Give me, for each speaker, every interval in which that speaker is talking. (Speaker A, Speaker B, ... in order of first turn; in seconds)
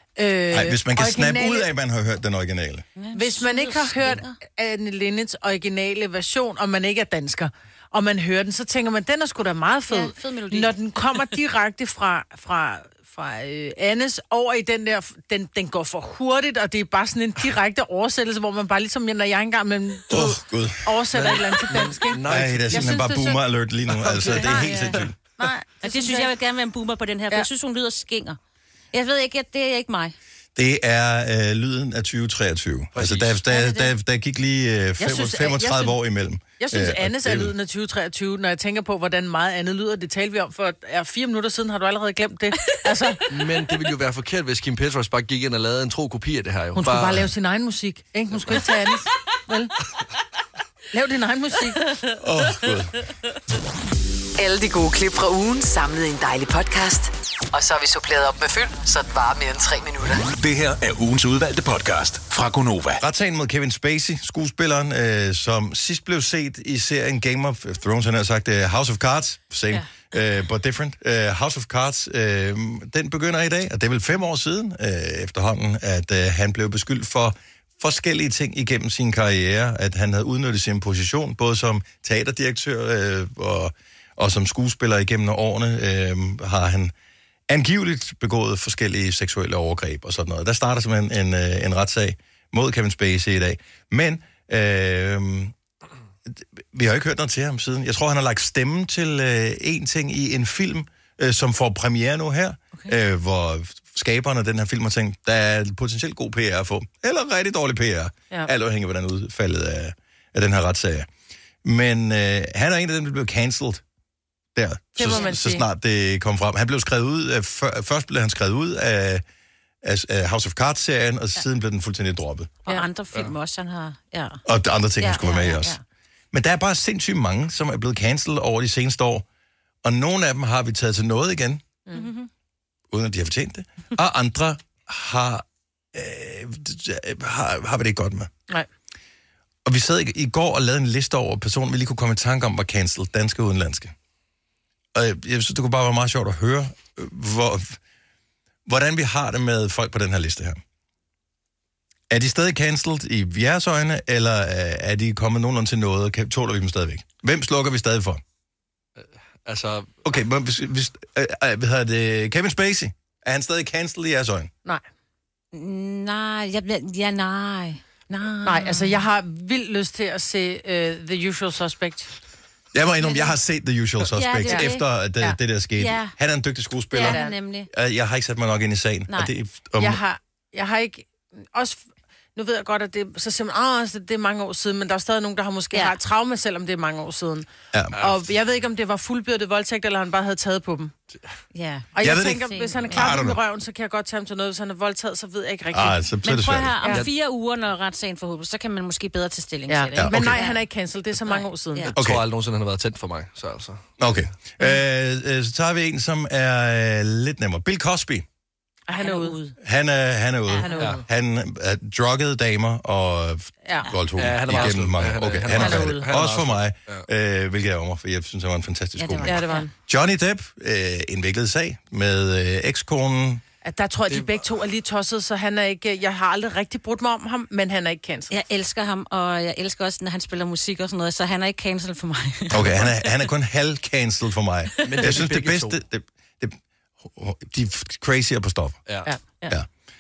Speaker A: 0.2-1.7, 3.1-23.4, 24.3-26.3, 35.0-36.0, 36.6-43.2, 46.8-49.7, 50.9-51.8, 115.0-115.7, 168.4-172.1, 174.5-175.4, 177.0-177.4, 179.8-181.8, 182.3-190.9, 191.9-196.0, 199.7-201.9, 208.9-209.4, 210.6-211.0, 215.6-216.1, 219.2-219.7, 223.6-228.3, 239.1-239.6
Speaker B: 0.5-2.9, 20.1-21.0, 22.2-25.1, 30.6-37.5, 52.2-53.0, 63.0-86.9, 87.5-95.5, 96.3-111.1, 111.6-113.8, 114.5-119.2, 119.8-122.5, 124.5-125.8, 126.3-129.2, 129.8-131.6, 132.9-138.3, 139.7-143.9, 144.9-147.8, 148.7-150.6, 152.1-158.2, 160.1-164.5, 172.7-180.0, 192.0-193.4, 195.7-196.8, 200.0-200.4, 202.0-202.2, 204.0-208.3, 209.6-223.4, 232.5-238.8
Speaker C: 3.0-4.4, 9.9-10.8, 25.8-28.4, 28.9-30.1, 33.5-33.9, 115.1-115.3, 122.7-124.4, 125.0-125.8, 131.9-132.3, 165.5-169.1, 173.0-173.3, 174.1-174.8, 175.8-176.1, 176.9-177.7, 191.5-193.2, 196.2-200.6, 201.2-202.0, 208.9-209.6, 219.0-219.7, 228.3-233.0
Speaker D: 21.1-23.0, 23.9-24.9, 32.9-33.4, 43.3-47.3, 159.0-160.0, 187.9-188.2, 201.9-203.9, 214.2-217.1, 224.1-224.4, 234.8-235.8
Speaker E: 54.4-60.2
Speaker F: 60.4-63.0